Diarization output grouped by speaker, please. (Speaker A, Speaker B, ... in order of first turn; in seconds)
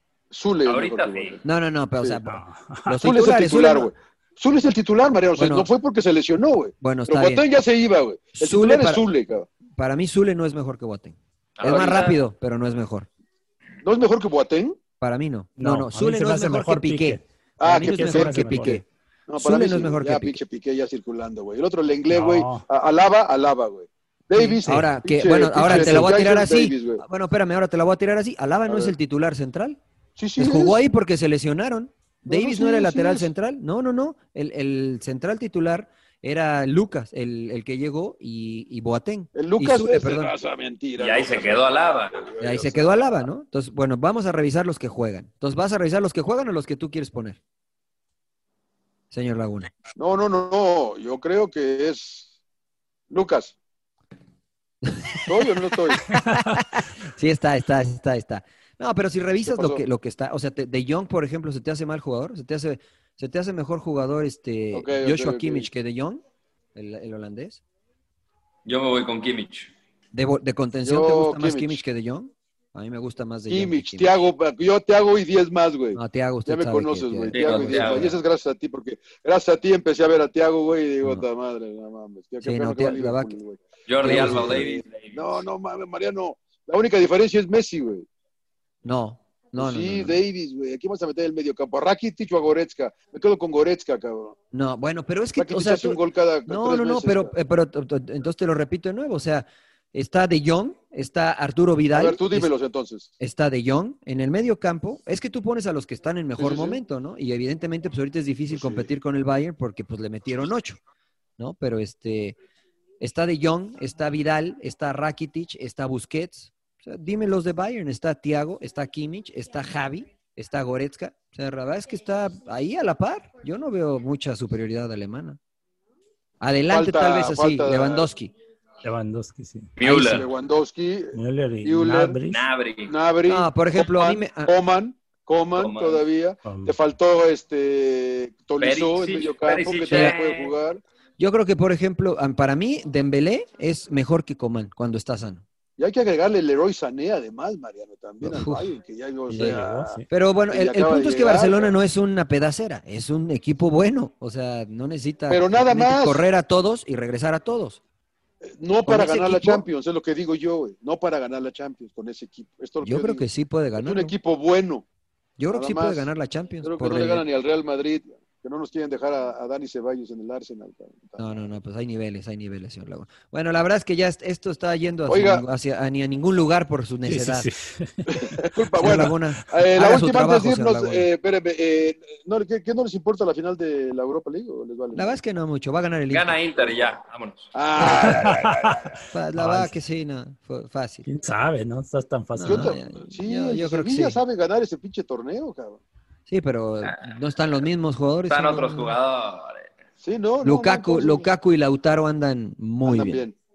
Speaker A: 0.3-1.4, 3.0-9.5, 11.6-12.2, 13.8-14.8, 17.6-27.0, 28.7-28.9, 30.2-30.8, 32.3-33.3, 39.4-41.6, 42.4-42.8, 50.0-52.3, 53.1-53.6, 55.3-56.1, 59.5-59.8, 64.7-65.7, 70.8-71.8, 73.5-88.1, 89.5-94.3, 95.4-97.3, 101.9-103.1, 106.4-106.8, 108.5-108.9, 126.7-128.1, 130.1-132.2, 132.9-140.8, 145.8-151.7, 155.3-156.3, 158.4-163.2, 163.8-164.9, 165.5-166.1, 166.6-171.2, 175.1-175.4, 178.1-185.2, 187.5-189.0, 192.5-195.8, 200.0-201.3, 202.8-203.4
Speaker B: 0.7-1.4, 11.6-12.2, 41.0-42.6, 68.7-69.7, 77.3-78.2, 83.9-85.4, 129.8-130.3, 132.3-132.9, 135.6-136.1, 138.6-140.5, 186.1-187.5, 198.3-199.7
Speaker C: 1.4-3.9, 5.4-5.7, 6.8-7.4, 8.4-9.1, 9.8-13.1, 15.0-18.8, 19.4-20.4, 24.3-29.8, 30.4-40.3, 42.4-47.4, 49.1-49.7, 54.8-55.4, 56.0-66.2, 66.8-67.6, 70.1-74.1, 76.0-78.2, 82.4-83.3, 84.0-84.8, 88.8-90.2, 94.5-102.5, 103.2-110.8, 111.4-112.4, 113.0-125.4, 126.4-128.3, 129.8-130.2, 133.3-134.5, 139.9-140.2, 141.2-145.4, 148.2-148.7, 149.3-149.6, 150.1-157.8, 158.9-159.7, 162.8-164.2, 165.4-167.2, 171.2-177.5, 178.8-181.1, 184.9-186.4, 189.1-191.1, 192.3-194.2, 196.3-199.0, 200.4-203.3
Speaker D: 2.3-3.1, 15.6-17.2, 17.8-18.8, 22.1-22.6, 25.6-26.0, 56.1-56.6, 128.8-129.7, 131.1-132.5, 136.4-136.8, 149.4-150.1, 177.1-178.2, 187.8-189.8, 191.1-192.8